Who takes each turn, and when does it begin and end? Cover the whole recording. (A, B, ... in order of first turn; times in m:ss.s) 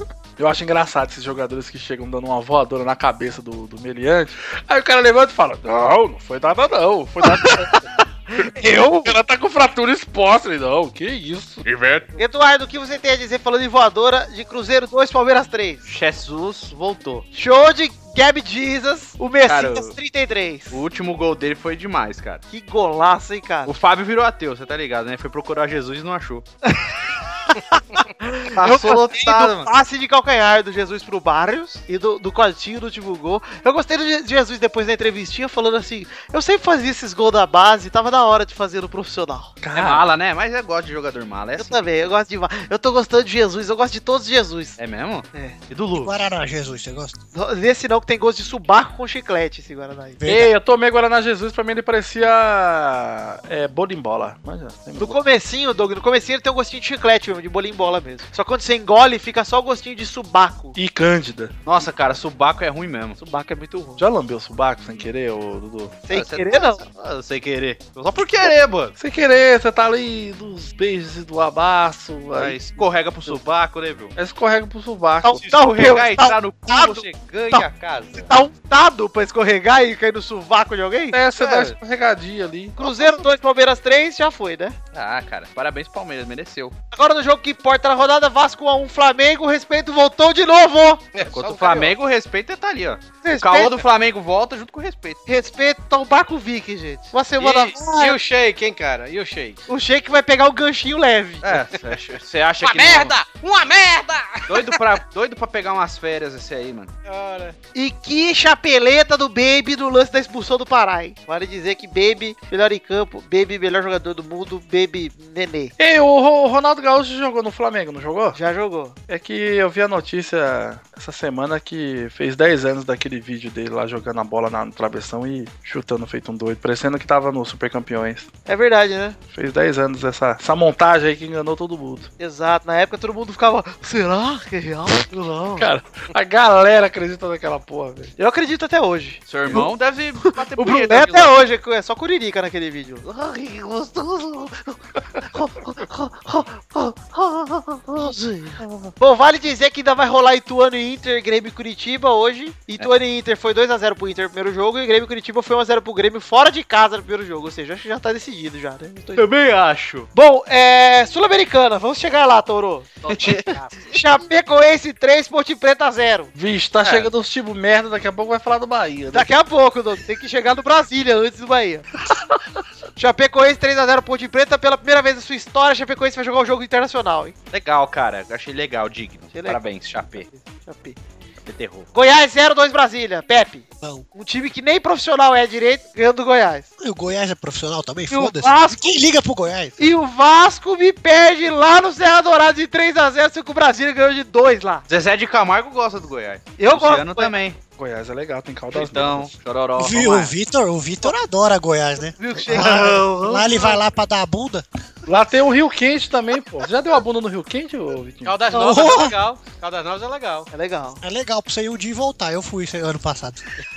0:00.4-0:07.7 A
0:08.4-0:11.7 A
0:08.4-0:09.1 B
0:11.6-0:12.1 C
0:12.2-0:15.8 B
0:15.8-0:17.2 C
0:17.3-0:20.8 B
0:19.4-0:19.9 C
0:20.7-0:22.4 C
0:22.5-0:23.7 B
0:23.6-0:26.4 C
0:26.7-0:39.5 B
0:28.5-0:29.7 C
0:39.6-0:40.1 A
0:39.7-0:41.7 C
0:41.5-0:44.8 B
0:44.8-0:46.2 C
0:46.0-0:47.2 D
0:47.3-0:50.2 B
0:50.2-0:50.5 D
0:50.2-0:55.2 A
0:55.0-1:00.8 B
1:00.7-1:01.5 A
1:01.6-1:03.2 C
1:03.2-1:04.0 B
1:04.0-1:05.9 A
1:06.1-1:06.8 B
1:06.1-1:08.9 C
1:09.0-1:13.4 A
1:12.4-1:14.1 C
1:14.2-1:15.5 A
1:15.2-1:21.2 B
1:15.5-1:18.3 C
1:21.1-1:22.8 A
1:21.4-1:21.8 C
1:22.8-1:24.8 B
1:22.9-1:23.1 C
1:24.9-1:26.8 C
1:26.9-1:31.0 B
1:31.1-1:32.0 E
1:31.3-1:35.2 C
1:33.2-1:33.8 B
1:35.3-1:38.2 B
1:37.4-1:39.6 E
1:39.7-1:41.5 B
1:41.4-1:43.2 C
1:42.6-1:44.9 E
1:44.5-1:46.9 C
1:47.0-1:47.6 E
1:47.7-1:55.7 B
1:55.8-1:58.4 A
1:58.3-1:59.0 B
1:59.1-2:08.3 A
2:08.4-2:09.2 B
2:09.3-2:12.1 A
2:12.2-2:15.7 B
2:15.6-2:18.1 A
2:18.2-2:23.9 B
2:19.2-2:21.4 C
2:25.3-2:39.3 B
2:39.1-2:40.1 C
2:40.1-2:46.3 B
2:43.1-2:43.8 E
2:43.1-2:43.5 C
2:46.3-2:49.3 A
2:46.8-2:47.1 C
2:49.1-2:51.8 B
2:53.0-2:57.3 B
2:57.5-3:00.2 C
2:59.3-3:01.0 B
3:01.4-3:01.9 C
3:01.9-3:06.7 B
3:03.8-3:04.0 D
3:06.8-3:09.8 D
3:08.1-3:09.0 B
3:09.8-3:14.8 B
3:14.9-3:17.6 C
3:16.6-3:17.3 B
3:17.8-3:19.3 A
3:18.7-3:20.3 C
3:19.8-3:24.6 D
3:22.2-3:23.8 B
3:25.1-3:28.3 A
3:28.2-3:30.5 E
3:28.5-3:29.1 D
3:30.5-3:31.0 B
3:31.0-3:33.4 D